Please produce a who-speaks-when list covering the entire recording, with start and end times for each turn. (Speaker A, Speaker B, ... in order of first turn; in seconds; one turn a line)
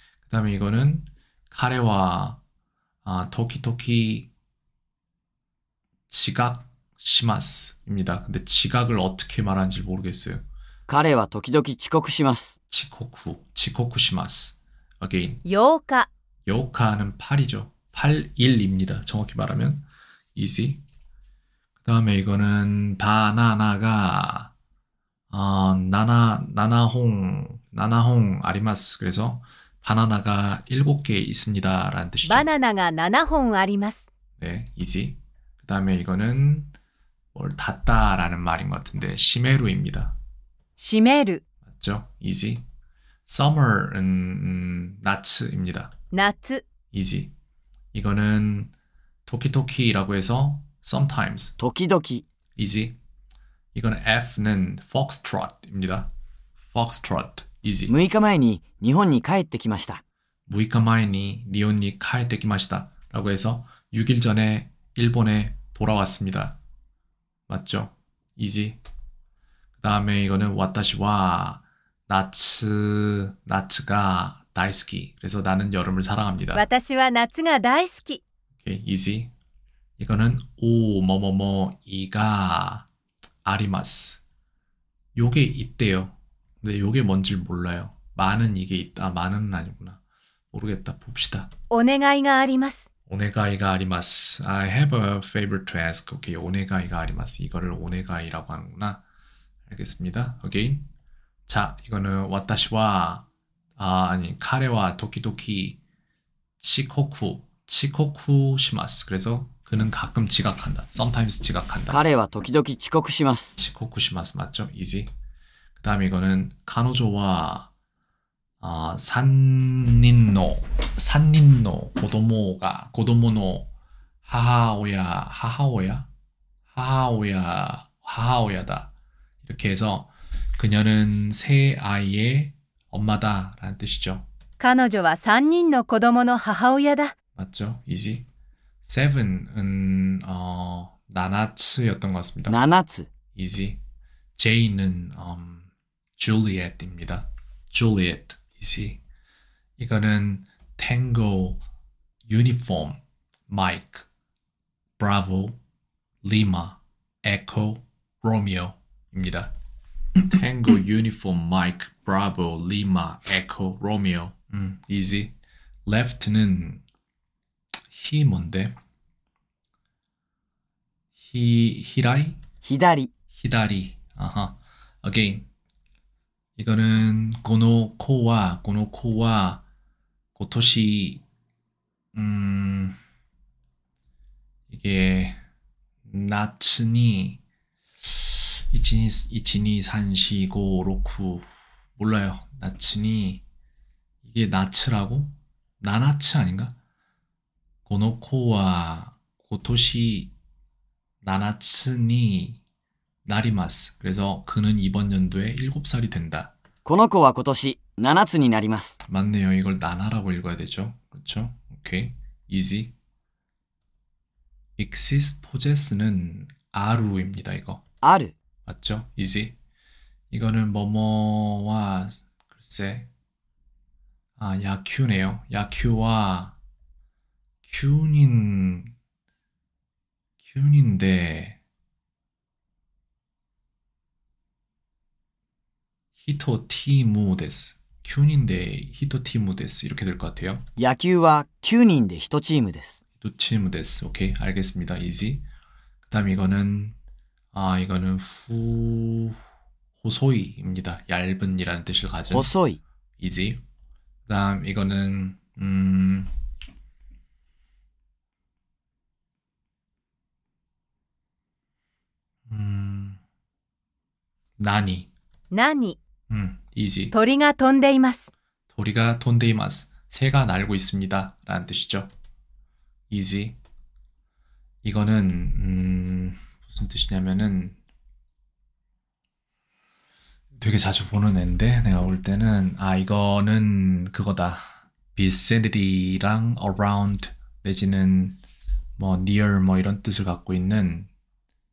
Speaker A: 0.3-2.4
Speaker A: 3.0-4.3
Speaker A: 6.1-10.4
Speaker B: 10.9-12.6
Speaker A: 12.7-15.4
Speaker C: 15.4-16.1
Speaker A: 16.5-20.8
Speaker A: 21.8-24.5
Speaker A: 25.3-32.5
Speaker C: 32.2-34.1
Speaker A: 34.4-36.7
Speaker A: 37.3-40.2
Speaker C: 40.8-41.4
Speaker A: 41.7-42.6
Speaker A: 43.3-45.9
Speaker C: 46.1-46.6
Speaker A: 46.9-47.3
Speaker A: 47.9-48.7
Speaker A: 49.3-51.6
Speaker B: 51.6-52.2
Speaker A: 52.6-53.0
Speaker A: 53.7-56.1
Speaker A: 56.7-58.0
Speaker B: 57.9-60.0
Speaker A: 60.5-66.6
Speaker A: 67.5-68.8
Speaker A: 69.8-76.7
Speaker C: 76.5-78.2
Speaker A: 78.6-79.3
Speaker A: 80.0-82.9
Speaker A: 83.5-84.2
Speaker A: 85.2-90.0
Speaker A: 90.5-91.5
Speaker C: 91.7-92.9
Speaker A: 93.1-99.0
Speaker A: 99.7-100.9
Speaker A: 101.5-105.8
Speaker A: 106.6-112.0
Speaker B: 111.9-113.6
Speaker A: 113.6-115.1
Speaker A: 115.8-117.7
Speaker A: 118.6-123.7
Speaker A: 124.2-126.1
Speaker A: 126.7-128.9
Speaker A: 129.4-134.2
Speaker C: 134.6-137.1
Speaker A: 137.4-138.3
Speaker A: 138.8-142.6
Speaker B: 142.5-143.1
Speaker A: 143.3-143.8
Speaker A: 144.4-149.0
Speaker A: 149.8-151.6
Speaker A: 152.3-154.1
Speaker A: 155.0-155.6
Speaker A: 156.2-159.5
Speaker A: 160.2-165.3
Speaker A: 165.9-166.8
Speaker A: 167.9-168.8
Speaker A: 171.2-172.4
Speaker B: 172.6-173.1
Speaker A: 173.3-175.5
Speaker A: 176.6-179.6
Speaker A: 180.3-181.2
Speaker A: 182.1-183.0
Speaker A: 184.7-185.4
Speaker A: 186.1-187.4
Speaker A: 188.0-193.4
Speaker A: 194.2-196.8
Speaker A: 197.9-200.3
Speaker A: 201.2-202.6
Speaker A: 203.2-206.5
Speaker B: 206.8-209.0
Speaker A: 209.1-212.9
Speaker A: 214.8-217.8
Speaker B: 218.0-218.3
Speaker A: 218.7-219.6
Speaker A: 220.3-223.1
Speaker A: 224.4-226.6
Speaker A: 227.7-228.9
Speaker A: 230.4-231.6
Speaker A: 236.2-240.7
Speaker B: 240.8-243.0
Speaker A: 243.2-245.5
Speaker A: 246.1-247.0
Speaker A: 247.5-249.4
Speaker A: 250.0-252.6
Speaker B: 252.3-252.8
Speaker A: 253.2-253.6
Speaker A: 254.3-256.3
Speaker A: 262.5-263.2
Speaker A: 264.6-265.1
Speaker C: 265.5-266.0
Speaker A: 266.3-267.1
Speaker C: 267.1-268.3
Speaker A: 268.7-272.1
Speaker A: 273.1-273.6
Speaker A: 274.8-277.8
Speaker A: 280.6-288.4
Speaker A: 289.0-291.1